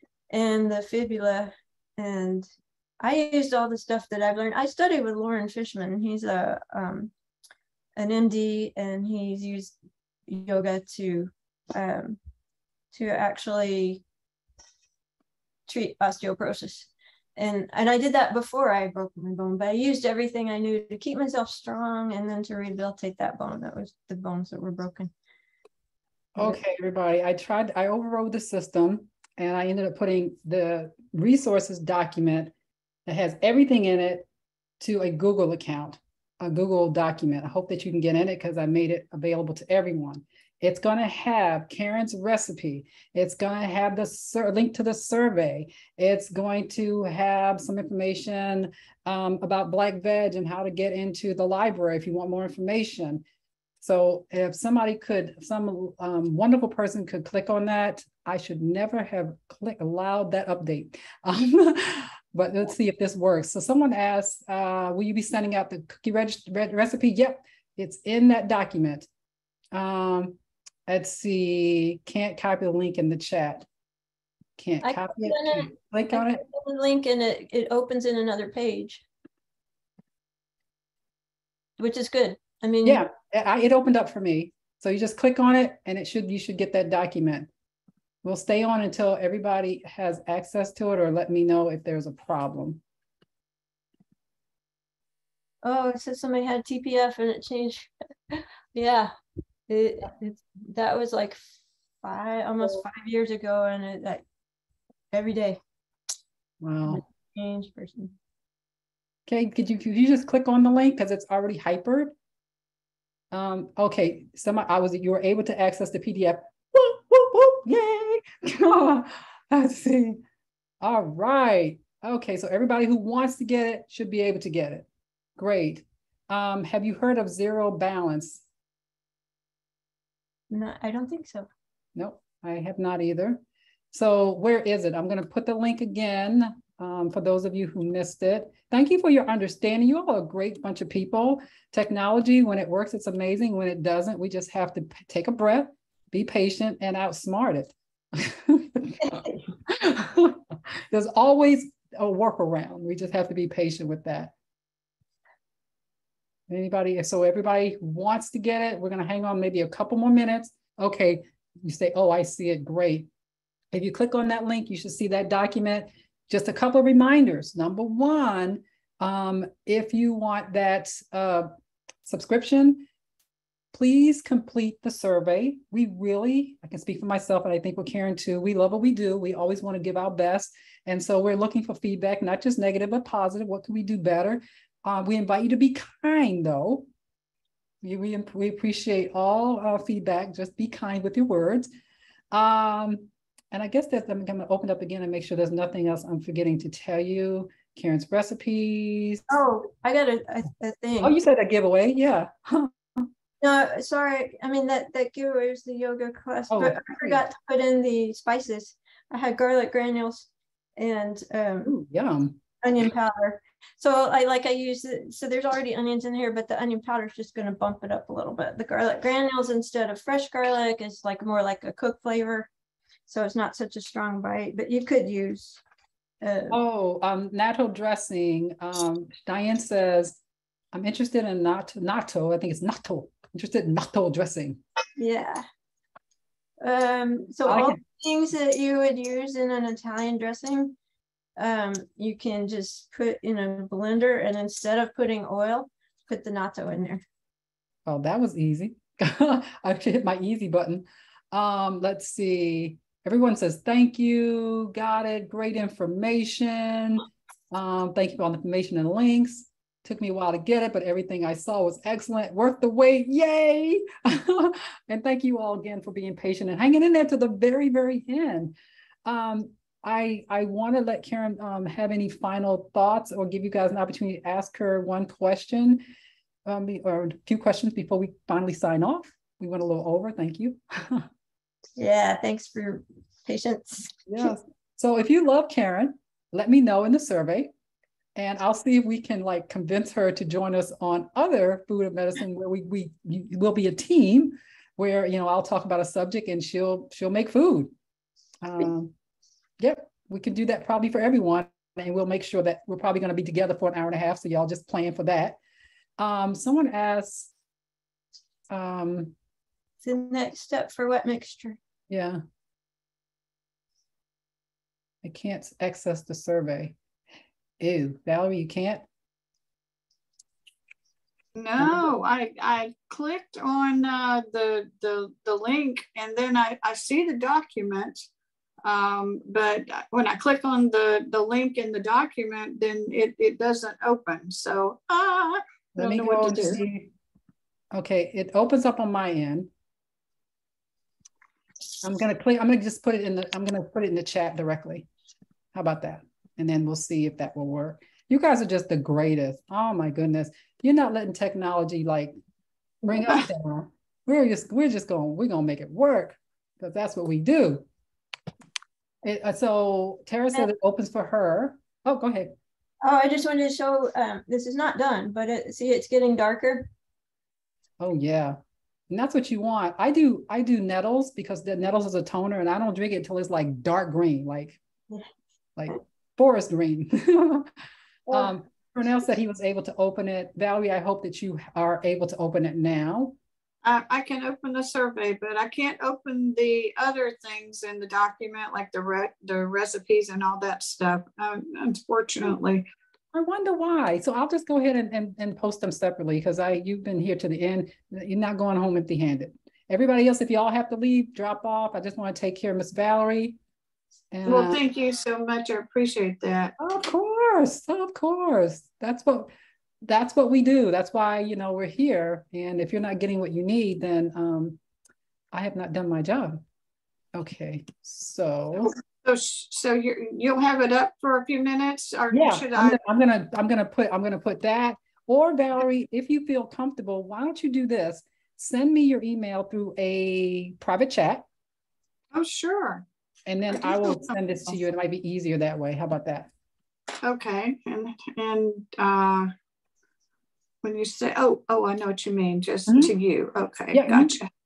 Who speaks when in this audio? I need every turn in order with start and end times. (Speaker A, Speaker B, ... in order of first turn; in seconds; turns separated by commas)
Speaker A: 0.3-2.5, Speaker A: 3.0-7.1, Speaker A: 8.0-9.8, Speaker A: 10.3-12.2, Speaker A: 12.9-14.0, Speaker A: 15.7-25.1, Speaker B: 26.4-32.5, Speaker B: 33.1-34.3, Speaker B: 34.8-53.2, Speaker B: 53.8-69.1, Speaker B: 69.7-73.7, Speaker B: 74.6-76.4, Speaker A: 74.8-79.0, Speaker A: 81.8-83.0, Speaker B: 82.8-87.5, Speaker B: 88.2-92.8, Speaker A: 95.6-99.1, Speaker A: 99.7-101.4, Speaker A: 102.0-104.2, Speaker A: 105.1-105.6, Speaker B: 106.6-107.0, Speaker A: 106.9-108.1, Speaker B: 109.3-112.1, Speaker B: 113.3-120.2, Speaker B: 120.8-124.9, Speaker B: 125.4-128.4, Speaker A: 130.5-131.5, Speaker B: 132.0-154.3, Speaker B: 156.5-163.1, Speaker B: 163.7-171.5, Speaker B: 172.0-172.9, Speaker B: 173.7-186.9, Speaker B: 187.8-191.7, Speaker B: 192.3-199.2, Speaker A: 199.3-201.2, Speaker B: 201.0-203.1, Speaker A: 203.4-211.8, Speaker B: 206.5-207.2, Speaker B: 211.7-212.4, Speaker A: 212.6-222.5, Speaker A: 223.1-225.6, Speaker A: 226.2-226.6, Speaker B: 226.5-230.2, Speaker B: 230.7-234.6, Speaker A: 235.0-235.4, Speaker A: 236.6-240.8, Speaker B: 237.5-237.8, Speaker A: 241.4-247.0, Speaker B: 247.9-268.6, Speaker B: 269.1-275.8, Speaker B: 276.5-281.1, Speaker A: 281.8-284.3, Speaker B: 284.1-287.5, Speaker B: 288.2-297.7, Speaker B: 298.4-298.9, Speaker B: 299.6-305.4, Speaker B: 306.0-307.3, Speaker B: 308.5-309.1, Speaker A: 309.8-311.6, Speaker B: 311.9-312.2, Speaker B: 315.0-316.8, Speaker B: 317.6-318.9, Speaker C: 321.4-328.1, Speaker B: 321.6-321.9, Speaker C: 328.6-336.6, Speaker B: 335.8-336.9, Speaker B: 337.7-339.5, Speaker B: 341.8-344.9, Speaker B: 345.5-352.1, Speaker B: 352.9-357.6, Speaker B: 359.0-362.3, Speaker A: 362.8-366.7, Speaker B: 367.8-368.4, Speaker B: 368.9-374.6, Speaker B: 375.6-377.5, Speaker B: 378.1-383.1, Speaker C: 383.6-392.6, Speaker B: 393.1-403.4, Speaker B: 404.1-404.6, Speaker C: 404.3-406.6, Speaker B: 406.6-409.3, Speaker B: 409.9-414.6, Speaker B: 415.3-416.4, Speaker B: 417.1-418.7, Speaker C: 418.7-422.8, Speaker B: 422.1-431.2, Speaker C: 432.1-432.8, Speaker B: 433.3-436.3, Speaker C: 433.5-434.5, Speaker C: 437.0-439.3, Speaker C: 440.6-444.3, Speaker B: 442.7-442.9, Speaker B: 443.7-444.1